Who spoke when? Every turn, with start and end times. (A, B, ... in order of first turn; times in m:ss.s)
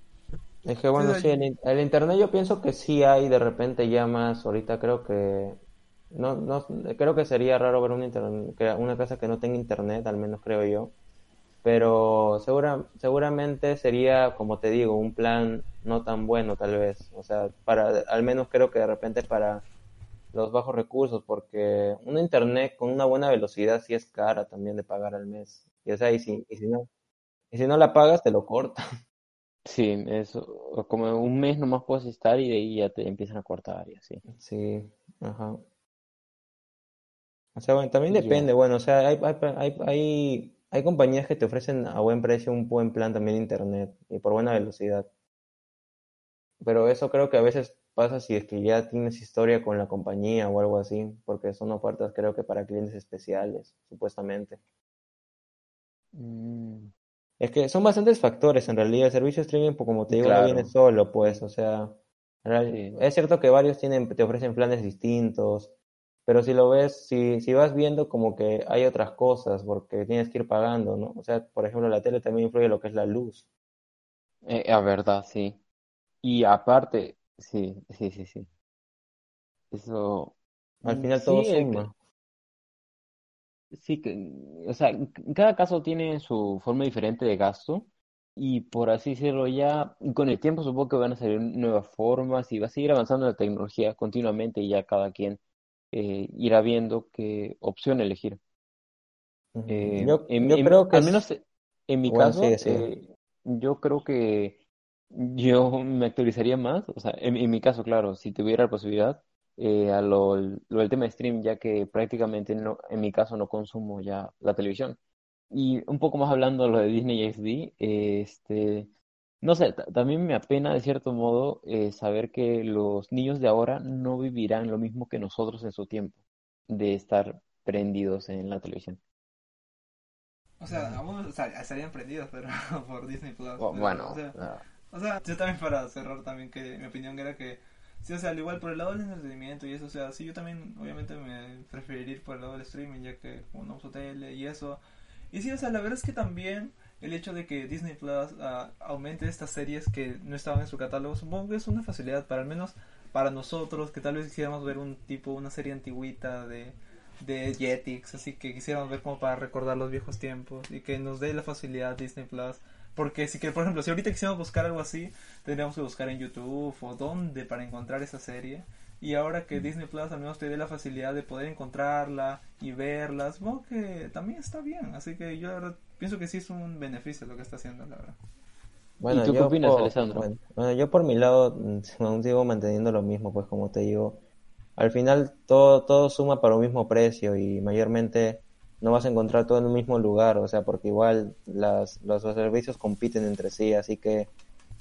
0:00.6-0:10.9 A
0:01.0-0:01.3 B
0:11.6-0:19.6 A
0:20.3-0:26.9 A
0:27.5-0:28.8 A
0:29.6-0:34.2 C
0:34.4-0:35.6 A
0:37.6-0:45.1 A
0:38.1-0:38.5 C
0:46.6-0:54.6 A
0:56.1-0:56.9 C
0:57.4-1:05.7 A
1:00.1-1:00.7 C
1:02.7-1:03.0 C
1:06.3-1:13.4 A
1:14.4-1:15.6 C
1:16.2-1:18.5 C
1:19.7-1:21.9 C
1:20.8-1:21.9 A
1:23.7-1:35.4 C
1:35.9-1:38.4 C
1:39.5-1:41.3 A
1:39.7-1:44.6 C
1:42.1-1:42.9 A
1:45.1-1:55.0 C
1:55.5-1:58.9 C
1:59.4-2:09.0 C
2:10.6-2:14.4 B
2:13.6-2:14.6 C
2:14.9-2:58.2 B
2:59.0-3:04.2 A
2:59.1-3:00.3 C
3:04.8-3:14.3 A